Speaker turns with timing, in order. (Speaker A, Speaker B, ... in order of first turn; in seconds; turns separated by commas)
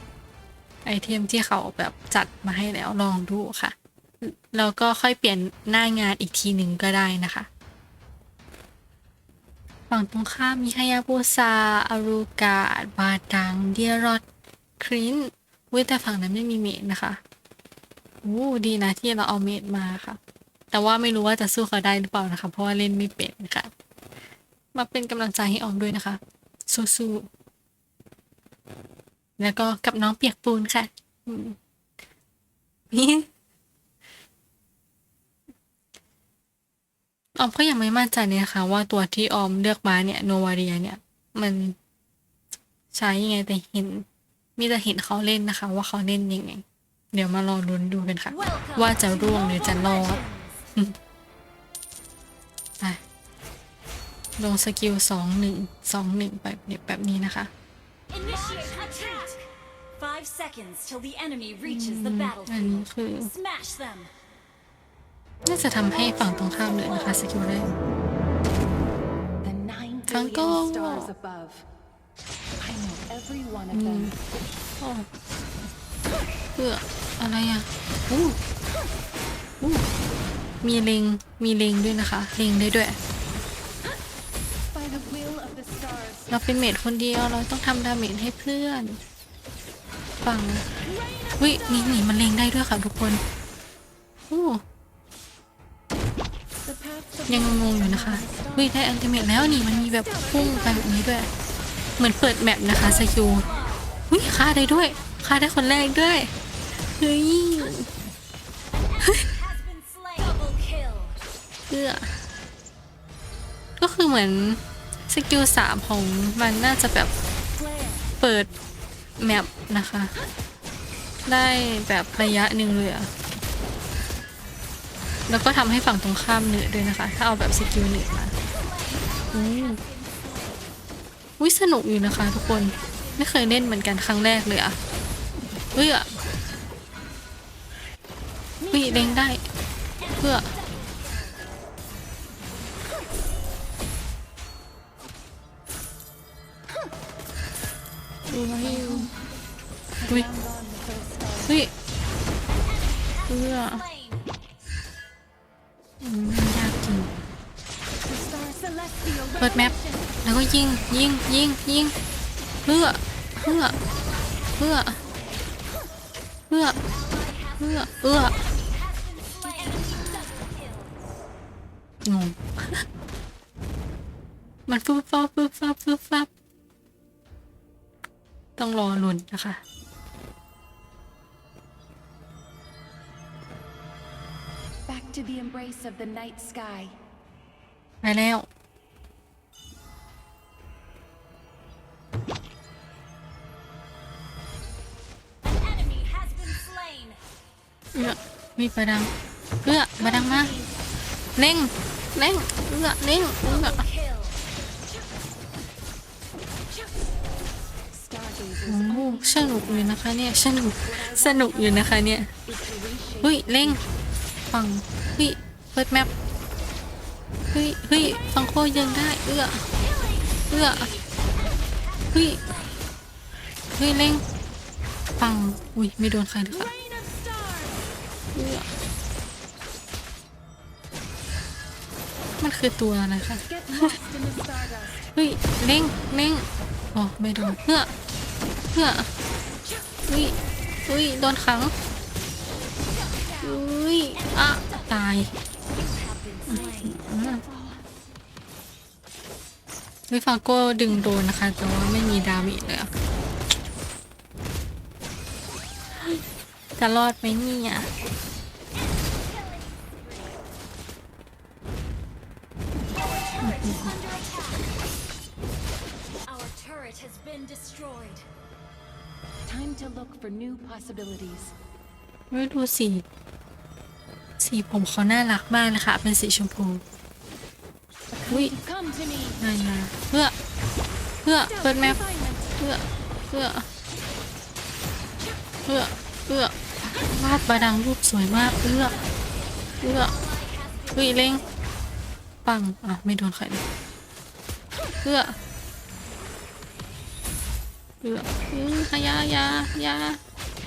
Speaker A: 0.8-7.5, Speaker A: 9.9-14.2, Speaker A: 14.8-17.2, Speaker A: 18.2-20.2, Speaker A: 20.7-23.7, Speaker A: 24.7-27.3, Speaker A: 29.4-31.6, Speaker A: 32.9-33.3, Speaker A: 37.4-41.8, Speaker A: 42.9-44.0, Speaker A: 44.6-50.2, Speaker B: 48.5-50.5, Speaker A: 54.4-57.5, Speaker B: 58.2-59.4, Speaker C: 58.2-59.3, Speaker B: 60.0-64.1, Speaker A: 61.6-63.3, Speaker A: 65.5-67.8, Speaker C: 69.4-71.7, Speaker A: 70.1-71.1, Speaker C: 72.6-74.2, Speaker A: 73.7-74.1, Speaker A: 74.8-75.1, Speaker A: 76.6-78.4, Speaker A: 79.6-79.8, Speaker A: 80.6-83.0, Speaker C: 84.7-86.3, Speaker A: 86.3-89.0, Speaker A: 90.2-90.7, Speaker A: 91.4-93.2, Speaker A: 94.3-94.6, Speaker C: 96.7-100.8, Speaker A: 97.3-101.3, Speaker A: 102.0-103.5, Speaker A: 104.1-106.3, Speaker A: 106.8-107.9, Speaker B: 109.1-111.2, Speaker A: 111.7-112.1, Speaker A: 113.8-117.1, Speaker C: 117.6-118.1, Speaker A: 118.2-118.5, Speaker A: 119.2-120.2, Speaker A: 121.2-123.1, Speaker A: 125.3-128.3, Speaker B: 128.9-130.6, Speaker A: 129.3-129.8, Speaker A: 131.4-134.8, Speaker A: 135.7-136.1, Speaker C: 138.6-139.1, Speaker A: 138.7-139.4, Speaker A: 140.2-140.5, Speaker B: 140.7-141.3, Speaker A: 148.3-149.1, Speaker C: 148.6-149.1, Speaker C: 150.0-151.5, Speaker A: 151.4-151.7, Speaker B: 152.8-154.2, Speaker A: 153.3-153.8, Speaker A: 156.0-157.1, Speaker C: 158.1-159.8, Speaker A: 159.4-161.9, Speaker A: 162.7-163.8, Speaker B: 163.8-165.0, Speaker A: 164.6-165.0, Speaker A: 166.5-166.8, Speaker B: 167.1-167.5, Speaker A: 167.6-168.4, Speaker B: 168.4-170.9, Speaker C: 169.6-170.4, Speaker A: 172.0-172.8, Speaker A: 174.7-176.3, Speaker A: 178.6-179.6, Speaker C: 184.9-187.0, Speaker A: 188.0-188.5, Speaker B: 195.5-197.2, Speaker A: 197.9-199.1, Speaker A: 199.6-200.5, Speaker C: 200.0-200.7, Speaker A: 201.4-203.9, Speaker B: 203.4-204.4, Speaker C: 207.9-210.0, Speaker A: 208.7-212.3, Speaker C: 210.9-211.9, Speaker C: 212.5-214.1, Speaker A: 213.2-213.8, Speaker A: 214.5-216.1, Speaker A: 217.5-219.7, Speaker B: 220.0-221.0, Speaker A: 220.5-220.9, Speaker B: 221.8-222.8, Speaker A: 222.1-222.4, Speaker A: 223.8-224.2, Speaker A: 225.2-226.7, Speaker C: 226.5-227.9, Speaker A: 228.3-228.7, Speaker A: 232.4-234.0, Speaker C: 233.4-235.1, Speaker A: 235.2-237.9, Speaker A: 238.7-239.1, Speaker A: 240.1-240.3, Speaker A: 240.9-241.7, Speaker A: 243.4-245.3, Speaker B: 245.9-246.3, Speaker A: 246.5-247.4, Speaker C: 246.6-247.5, Speaker A: 250.1-252.9, Speaker A: 256.8-257.9, Speaker B: 259.1-260.1, Speaker B: 263.1-264.7, Speaker A: 263.4-263.9, Speaker B: 266.2-268.3, Speaker C: 269.5-271.5, Speaker A: 272.3-273.0, Speaker A: 274.4-276.8, Speaker C: 278.1-279.4, Speaker A: 278.3-278.6, Speaker A: 279.4-280.4, Speaker A: 281.2-282.0, Speaker C: 281.6-282.2, Speaker A: 282.6-283.6, Speaker A: 285.7-289.0, Speaker A: 289.8-290.2, Speaker A: 290.9-291.5, Speaker A: 292.4-293.6, Speaker A: 295.0-295.4, Speaker A: 298.0-300.2